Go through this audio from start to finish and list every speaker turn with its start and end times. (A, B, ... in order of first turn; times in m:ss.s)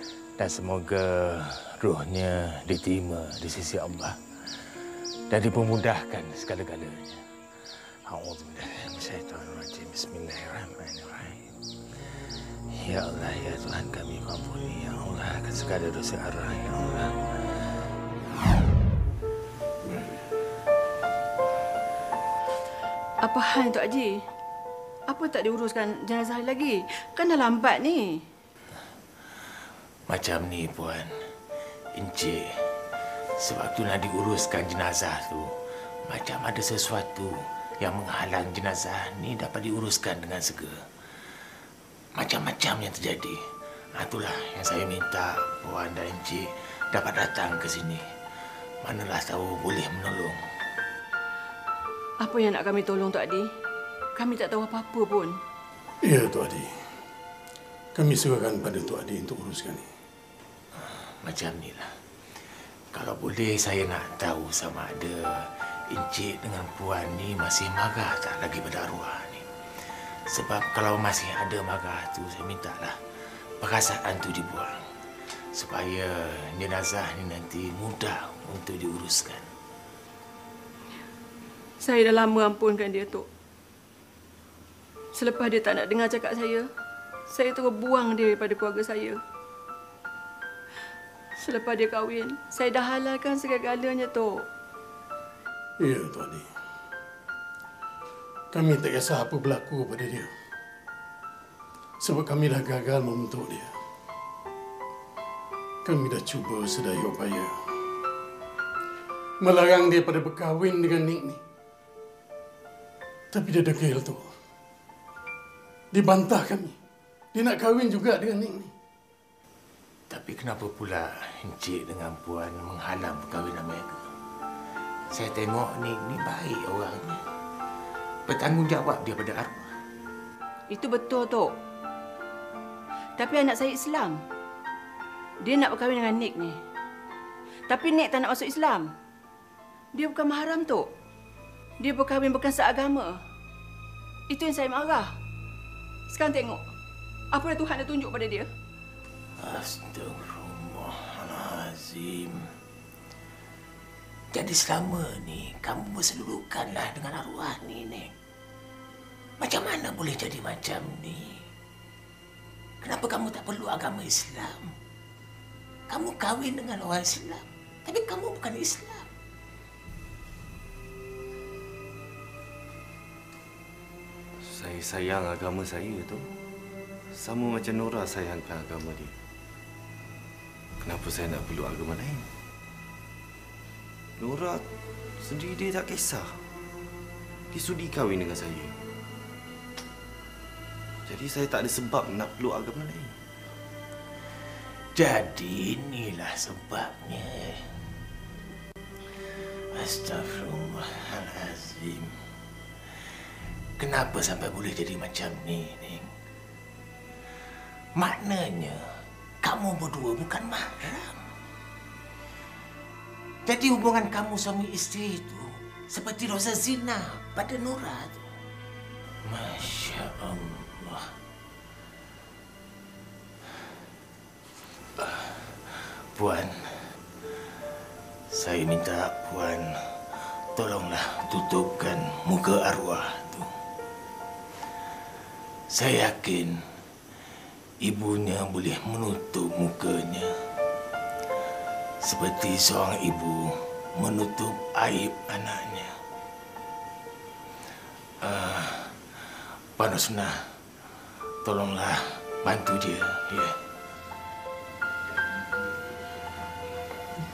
0:00.4-0:04.2 A
0:05.3-0:07.2 A
0:08.1-0:11.5 A
0:12.7-0:17.3 A
0:23.2-0:24.2 B
0:25.1-0:28.2 B
0:30.1-0:31.1 A
0:32.0-0:32.4 A
0:33.4-0:35.5 A
0:36.1-0:40.8 A
0:42.2-0:43.4 A
0:44.0-0:48.0 A
0:48.8-0:50.4 A
0:52.2-0:53.5 B
0:54.2-0:55.4 B
0:56.0-0:56.7 C
0:58.0-0:59.9 C
1:00.8-1:01.9 A
1:02.9-1:09.4 A
1:10.3-1:13.0 A
1:13.6-1:14.8 A
1:15.5-1:19.5 A
1:21.8-1:23.3 B
1:25.2-1:26.7 B
1:27.3-1:29.2 B
1:31.4-1:34.4 B
1:35.8-1:36.5 C
1:38.5-1:40.3 C
1:42.0-1:43.7 C
1:45.8-1:47.6 C
1:49.4-1:51.4 C
1:53.3-1:54.3 C
1:55.9-1:56.8 C
1:57.3-1:58.7 C
2:00.1-2:04.0 A
2:05.1-2:07.2 A
2:08.3-2:09.7 A
2:10.7-2:11.5 B
2:13.2-2:14.2 B
2:15.4-2:16.6 B
2:17.7-2:18.9 B
2:20.0-2:20.9 B
2:21.8-2:23.2 B
2:24.3-2:25.1 B
2:26.1-2:26.7 B
2:27.3-2:28.5 B
2:29.4-2:32.5 A
2:34.3-2:38.1 A
2:39.4-2:41.4 A
2:42.8-2:44.7 A
2:45.9-2:49.1 A
2:54.4-2:56.3 D
2:57.1-2:59.2 D
3:00.8-3:02.3 D
3:04.2-3:04.6 D
3:05.2-3:06.4 D
3:07.5-3:08.8 D
3:11.1-3:13.2 D
3:15.0-3:17.8 A
3:19.7-3:22.1 A
3:23.8-3:26.1 A
3:28.0-3:28.8 A
3:29.4-3:31.2 A
3:33.5-3:38.2 A
3:39.2-3:41.1 A
3:45.0-3:46.9 A
3:48.3-3:49.8 A
3:50.6-3:53.5 A
3:55.7-3:56.6 A
3:57.8-4:00.3 A
4:02.0-4:05.9 A
4:08.2-4:09.2 A
4:09.8-4:10.3 A
4:11.4-4:13.6 A